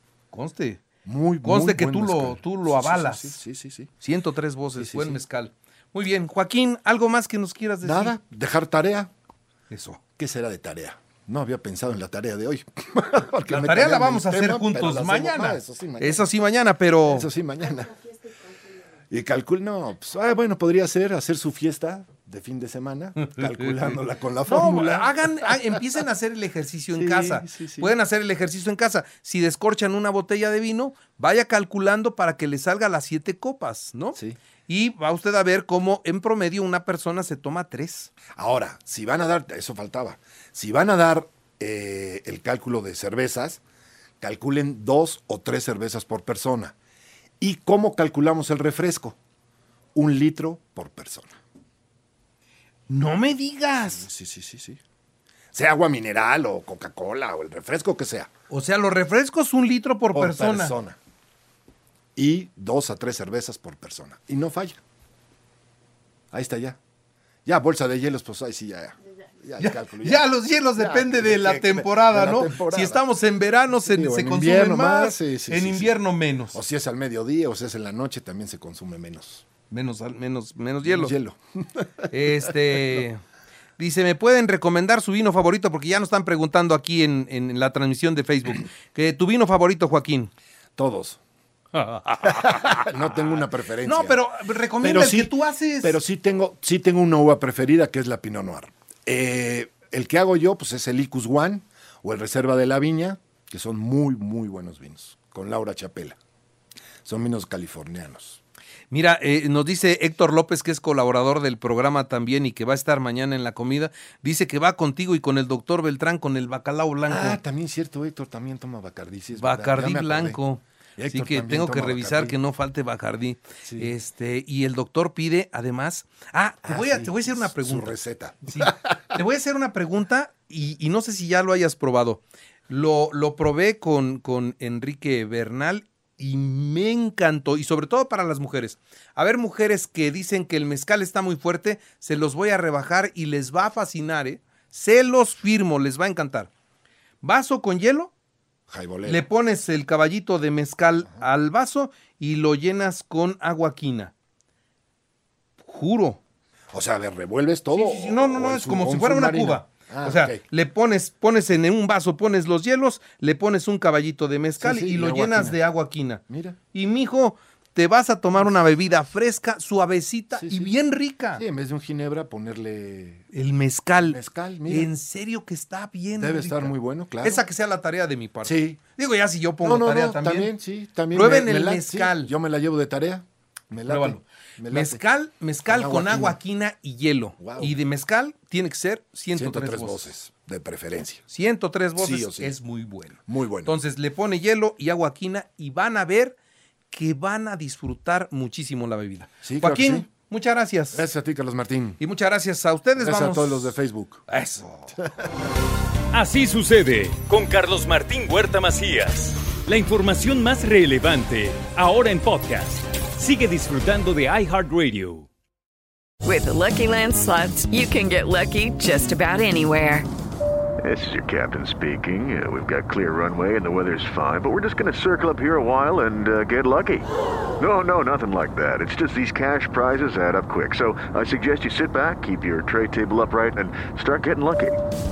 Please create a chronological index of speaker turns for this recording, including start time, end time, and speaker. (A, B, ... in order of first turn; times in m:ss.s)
0:00.3-0:00.8 A
0:01.0-0:03.9 B
0:01.4-0:03.4 A
0:04.0-0:08.2 A
0:04.7-0:05.2 B
0:07.8-0:09.1 B
0:09.7-0:10.0 A
0:10.2-0:16.3 B
0:13.5-0:17.3 A
0:17.1-0:18.3 B
0:19.1-0:25.3 B
0:23.2-0:34.2 A
0:26.9-0:27.9 B
0:34.7-0:38.1 A
0:38.3-0:43.6 B
0:44.2-0:46.7 B
0:47.4-0:49.2 B
0:49.9-0:51.3 B
0:52.9-0:54.0 A
0:53.8-0:54.8 B
0:55.5-0:58.3 B
0:58.5-1:00.7 A
1:00.1-1:01.0 B
1:02.2-1:04.8 B
1:06.3-1:06.8 B
1:07.4-1:13.0 B
1:09.6-1:16.6 A
1:13.8-1:16.0 B
1:16.5-1:19.4 B
1:19.7-1:21.1 A
1:20.8-1:23.0 B
1:22.1-1:23.2 A
1:23.8-1:30.3 A
1:30.8-1:31.2 B
1:31.7-1:33.2 A
1:32.2-1:34.2 B
1:33.8-1:36.0 A
1:34.8-1:46.2 B
1:47.0-1:48.4 B
1:48.9-1:57.4 A
1:57.1-2:00.4 B
1:59.3-2:07.9 A
2:01.0-2:02.4 B
2:03.6-2:03.9 B
2:06.7-2:09.2 B
2:08.5-2:26.5 A
2:27.2-2:28.1 A
2:28.7-2:29.3 B
2:29.0-2:34.1 A
2:35.6-2:36.2 A
2:36.7-2:40.4 B
2:37.7-2:46.2 A
2:44.6-2:45.6 B
2:46.3-2:46.6 B
2:46.7-2:51.4 A
2:50.3-2:50.7 B
2:51.3-2:53.2 B
2:53.3-3:00.5 A
2:54.0-2:54.9 B
2:56.2-2:57.4 B
2:58.4-2:58.8 B
2:59.6-3:05.0 B
3:01.1-3:02.3 A
3:03.9-3:10.1 A
3:05.6-3:06.4 B
3:07.4-3:07.8 B
3:09.3-3:11.2 B
3:11.3-3:16.4 A
3:12.0-3:12.6 B
3:13.3-3:13.8 B
3:16.9-3:21.0 A
3:19.4-3:20.1 B
3:20.9-3:22.0 B
3:22.0-3:23.8 A
3:23.0-3:25.3 B
3:24.3-3:24.6 A
3:26.1-3:35.3 C
3:36.2-3:40.1 D
3:40.8-3:54.8 E